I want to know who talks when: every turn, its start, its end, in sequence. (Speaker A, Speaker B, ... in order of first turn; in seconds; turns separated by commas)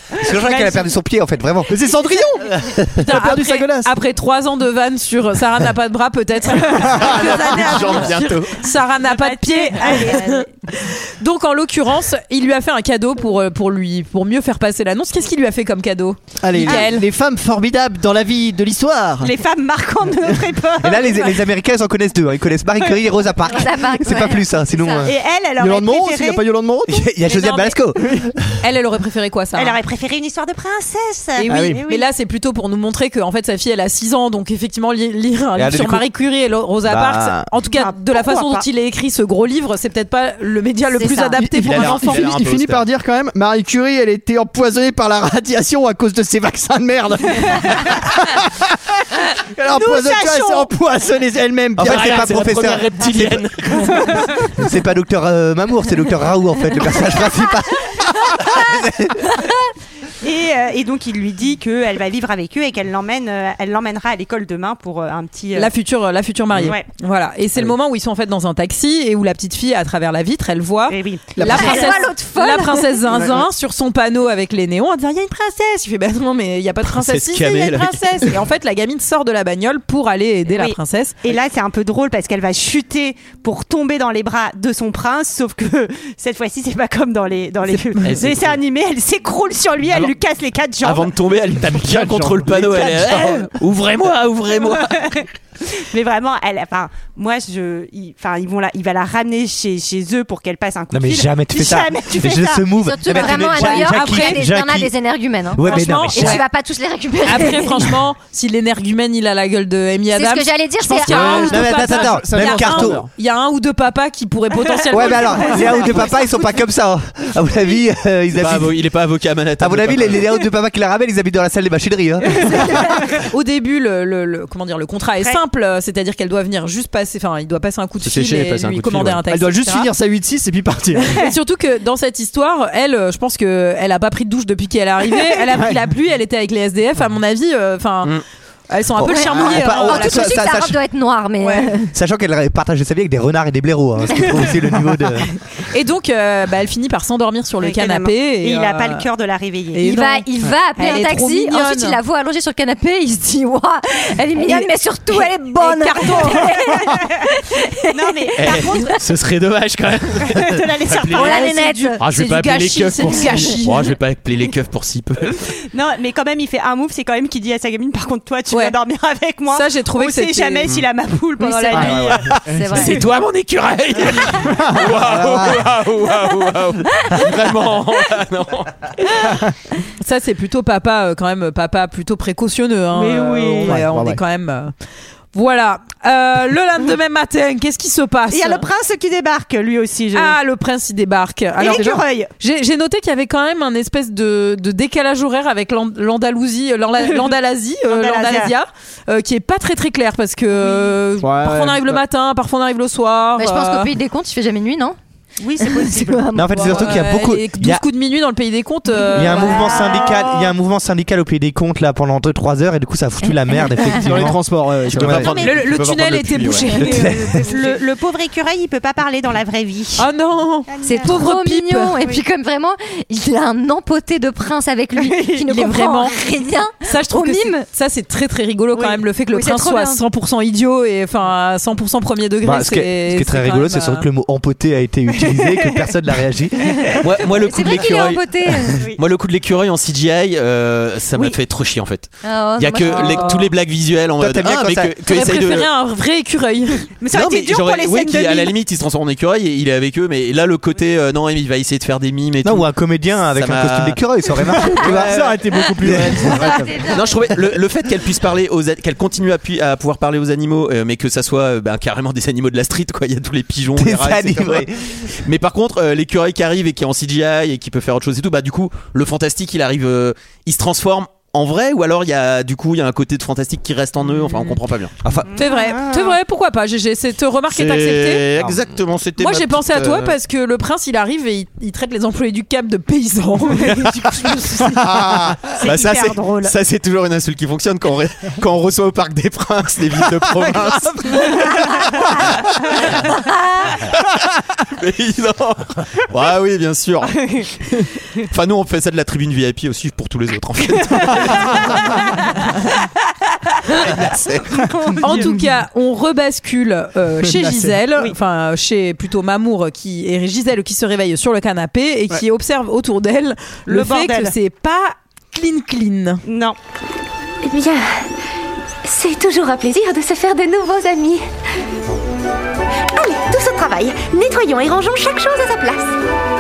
Speaker A: 0.2-0.9, Speaker B: 0.2-1.8, Speaker C: 1.7-3.9, Speaker B: 2.6-2.9, Speaker D: 3.0-17.1, Speaker A: 6.9-8.0, Speaker E: 6.9-8.6, Speaker F: 7.7-8.0, Speaker A: 9.0-10.5, Speaker C: 16.4-19.3, Speaker A: 16.6-17.0, Speaker A: 19.2-21.4, Speaker B: 20.8-25.1, Speaker F: 23.5-25.1, Speaker A: 25.0-26.4, Speaker C: 25.6-27.1, Speaker B: 26.9-28.4, Speaker D: 27.2-27.8, Speaker D: 28.6-29.8, Speaker A: 29.6-32.1, Speaker D: 31.4-42.2, Speaker C: 31.5-31.8, Speaker B: 35.5-36.1, Speaker B: 36.9-37.5, Speaker A: 37.7-38.7, Speaker F: 40.9-41.5, Speaker C: 41.4-48.7, Speaker E: 41.6-42.9, Speaker C: 49.5-52.4, Speaker A: 49.7-50.7, Speaker B: 51.8-53.5, Speaker E: 51.8-54.1, Speaker B: 54.5-59.4, Speaker A: 60.2-65.7, Speaker D: 65.5-81.2, Speaker A: 66.6-66.8, Speaker A: 70.9-71.8, Speaker C: 71.4-72.0, Speaker F: 71.5-73.1, Speaker C: 73.1-73.5, Speaker E: 76.9-78.2, Speaker A: 80.5-91.1, Speaker E: 88.0-88.6, Speaker E: 89.9-90.1, Speaker E: 90.8-95.0, Speaker C: 91.7-93.2, Speaker A: 92.8-93.5, Speaker A: 94.5-102.7, Speaker B: 100.9-104.9, Speaker F: 102.8-108.0, Speaker D: 103.4-104.4, Speaker B: 105.5-106.4, Speaker D: 105.6-106.5, Speaker D: 107.2-116.0, Speaker F: 110.1-111.8, Speaker C: 111.1-113.1, Speaker B: 111.1-113.0, Speaker A: 114.7-116.2, Speaker B: 114.9-118.8, Speaker E: 118.3-120.3, Speaker B: 119.6-122.8, Speaker A: 122.5-123.2, Speaker F: 122.6-122.9, Speaker D: 123.3-129.9, Speaker E: 128.0-129.2, Speaker C: 129.3-131.2, Speaker D: 131.0-138.1, Speaker D: 138.7-140.4, Speaker B: 139.0-140.8, Speaker F: 139.1-141.9, Speaker D: 141.4-141.7, Speaker B: 141.9-145.3, Speaker D: 145.7-149.1, Speaker A: 147.6-149.8, Speaker D: 149.7-152.0, Speaker F: 149.8-158.8, Speaker D: 154.4-154.7, Speaker D: 155.6-156.5, Speaker A: 156.0-156.4, Speaker A: 157.9-159.0, Speaker E: 158.4-161.5, Speaker A: 160.3-161.9, Speaker F: 161.1-162.0, Speaker D: 161.2-163.9, Speaker E: 162.0-165.4, Speaker A: 165.7-172.4, Speaker D: 168.5-168.8, Speaker D: 169.5-170.7, Speaker F: 171.4-173.1, Speaker C: 171.8-172.8, Speaker E: 172.2-178.9, Speaker C: 174.4-175.6, Speaker B: 175.1-175.5, Speaker D: 180.0-184.7, Speaker A: 182.9-183.8, Speaker C: 183.6-184.2, Speaker D: 185.3-188.7, Speaker A: 188.3-190.4, Speaker D: 190.1-203.9, Speaker A: 191.6-192.3, Speaker A: 197.9-198.5, Speaker A: 200.6-201.0, Speaker C: 201.2-202.0, Speaker F: 203.4-205.0, Speaker A: 205.4-206.9, Speaker F: 205.6-206.8, Speaker B: 206.3-207.8, Speaker D: 206.5-209.9, Speaker A: 209.1-210.5, Speaker B: 209.1-215.3, Speaker C: 214.0-215.3, Speaker E: 214.9-216.7, Speaker D: 215.3-217.8, Speaker A: 216.7-220.1, Speaker B: 216.8-217.5, Speaker D: 220.0-222.0, Speaker A: 220.7-221.2, Speaker F: 220.8-227.7, Speaker A: 224.9-225.4, Speaker D: 225.5-226.2, Speaker D: 226.8-234.1, Speaker A: 228.7-229.7, Speaker F: 229.6-230.0, Speaker B: 232.4-237.0, Speaker A: 235.1-235.9, Speaker E: 237.0-245.7, Speaker F: 237.5-238.8, Speaker A: 237.7-238.0, Speaker F: 242.2-243.4, Speaker D: 243.0-243.4, Speaker B: 244.2-244.9, Speaker D: 245.1-246.9, Speaker A: 247.0-248.5, Speaker E: 247.1-274.9, Speaker B: 252.4-256.4, Speaker C: 254.8-256.8, Speaker F: 256.4-257.2, Speaker B: 263.8-265.1, Speaker D: 274.2-274.6, Speaker B: 275.0-275.3, Speaker A: 275.3-276.2, Speaker D: 275.4-278.2, Speaker E: 277.5-280.1, Speaker D: 279.2-284.8, Speaker A: 283.6-284.6, Speaker E: 283.6-284.0, Speaker E: 284.7-293.1, Speaker A: 285.6-286.6, Speaker A: 291.0-292.2, Speaker E: 293.8-302.3, Speaker A: 300.9-302.2, Speaker E: 303.8-304.6, Speaker A: 304.5-305.4, Speaker D: 305.0-316.2, Speaker C: 307.2-307.8, Speaker A: 313.7-314.3, Speaker A: 316.3-316.6, Speaker G: 317.4-318.1, Speaker G: 318.8-321.2, Speaker G: 322.9-326.0